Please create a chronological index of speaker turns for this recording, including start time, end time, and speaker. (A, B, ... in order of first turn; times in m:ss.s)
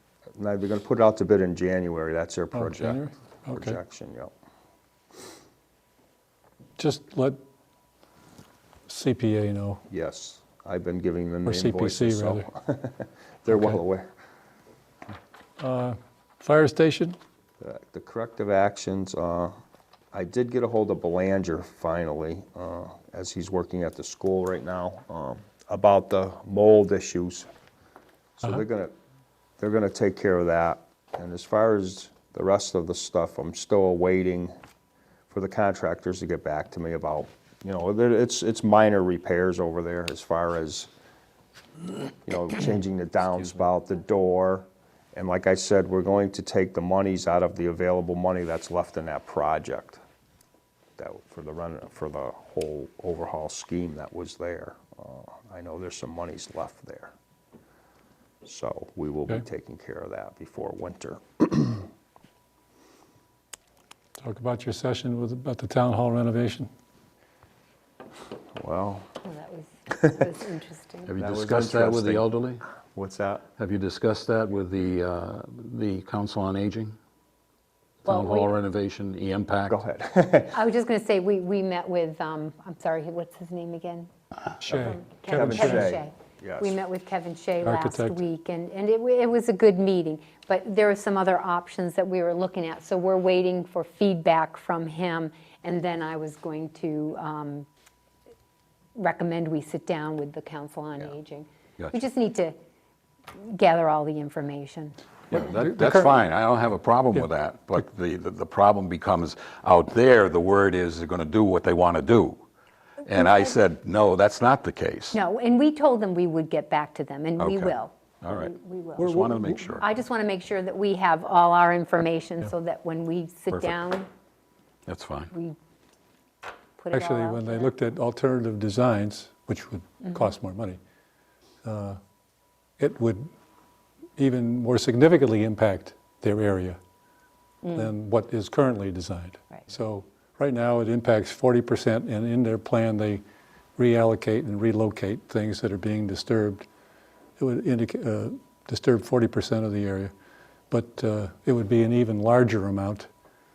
0:00.4-0:04.3 A
0:02.5-0:03.8 B
0:06.8-0:07.4 B
0:08.9-0:09.8 B
0:09.9-0:14.1 A
0:11.4-0:12.5 B
0:13.5-0:13.8 B
0:15.6-0:17.2 B
0:17.6-0:19.6 A
0:20.1-0:27.5 A
0:28.4-0:28.9 A
0:29.6-0:34.5 A
0:35.3-0:40.9 A
0:42.3-0:50.0 A
0:51.0-0:57.1 A
0:58.4-1:01.9 A
1:04.2-1:06.7 B
1:08.6-1:09.1 A
1:09.2-1:11.1 C
1:11.1-1:12.6 D
1:11.2-1:12.3 A
1:12.9-1:13.5 A
1:13.6-1:17.0 D
1:18.0-1:19.8 D
1:18.1-1:18.6 C
1:19.7-1:20.5 A
1:20.5-1:24.1 C
1:24.6-1:26.0 B
1:24.7-1:37.7 C
1:25.3-1:26.8 A
1:27.6-1:28.2 B
1:39.0-1:42.6 C
1:43.4-1:45.0 C
1:45.3-1:52.4 D
1:45.4-1:46.1 B
1:53.0-1:55.2 D
1:55.1-1:59.2 C
1:57.4-1:59.8 D
1:59.0-1:59.7 B
1:59.8-2:04.1 C
2:03.5-2:03.8 D
2:04.9-2:05.3 D
2:05.3-2:05.6 C
2:06.8-2:07.7 C
2:06.9-2:10.8 B
2:11.6-2:12.0 B
2:12.8-2:13.3 B
2:14.2-2:16.8 B
2:17.6-2:17.9 C
2:17.7-2:23.2 B
2:23.8-2:26.7 B
2:27.4-2:30.1 B
2:30.7-2:33.1 B